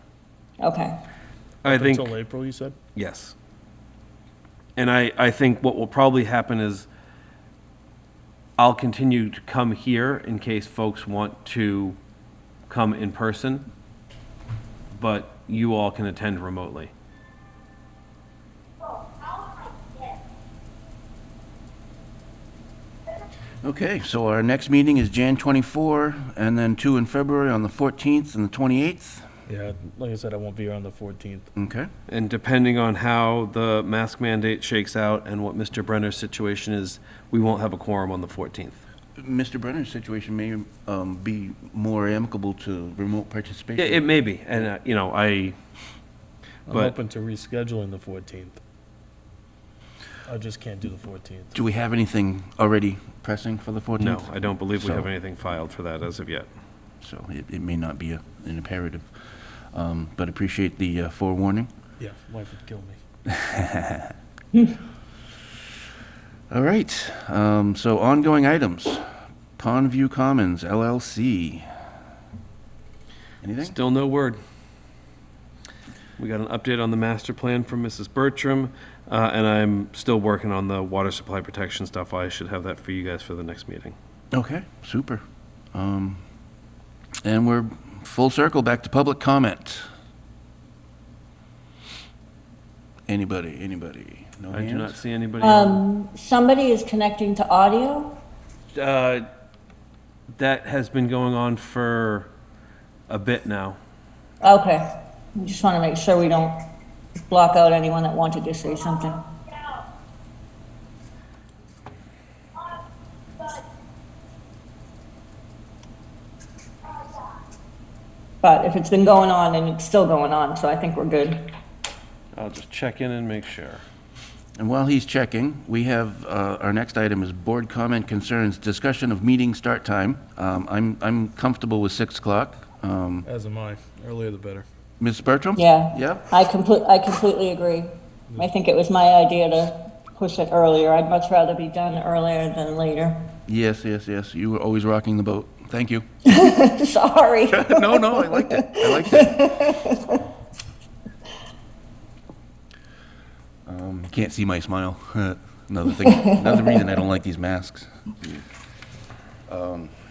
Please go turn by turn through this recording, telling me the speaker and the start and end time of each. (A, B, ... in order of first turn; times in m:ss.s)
0:00.6-0:01.0 A
0:01.6-0:02.1 B
0:01.6-0:02.8 C
0:03.0-0:03.3 B
0:04.8-0:06.9 B
0:08.6-0:12.0 B
0:12.7-0:13.7 B
0:14.9-0:16.9 B
0:23.6-0:29.2 D
0:29.5-0:31.5 C
0:31.6-0:31.9 D
0:32.1-0:38.8 B
0:39.2-0:44.0 D
0:43.8-0:45.6 B
0:46.7-0:48.6 C
0:46.7-0:47.0 B
0:50.3-0:51.6 C
0:51.5-0:55.1 D
0:54.0-0:56.5 B
0:57.0-0:59.1 D
0:59.7-1:01.7 D
1:02.0-1:03.0 C
1:03.3-1:04.1 D
1:06.5-1:09.0 D
1:09.6-1:11.6 D
1:13.4-1:13.8 D
1:13.6-1:14.4 B
1:16.2-1:24.0 B
1:24.3-1:25.2 D
1:25.7-1:26.2 D
1:27.2-1:29.8 D
1:33.1-1:35.0 D
1:34.5-1:35.8 B
1:35.4-1:38.2 A
1:38.7-1:39.3 B
1:40.4-1:42.3 B
1:43.1-1:43.8 B
1:44.4-1:46.6 A
1:47.3-1:49.2 A
1:58.4-2:01.4 A
2:02.4-2:03.8 B
2:04.6-2:13.3 D
2:13.2-2:14.7 C
2:15.0-2:16.3 D
2:15.6-2:23.2 A
2:23.5-2:26.0 D
2:26.3-2:30.2 A
2:27.5-2:29.5 D
2:33.7-2:37.9 D
2:36.0-2:36.8 A
2:39.5-2:39.9 D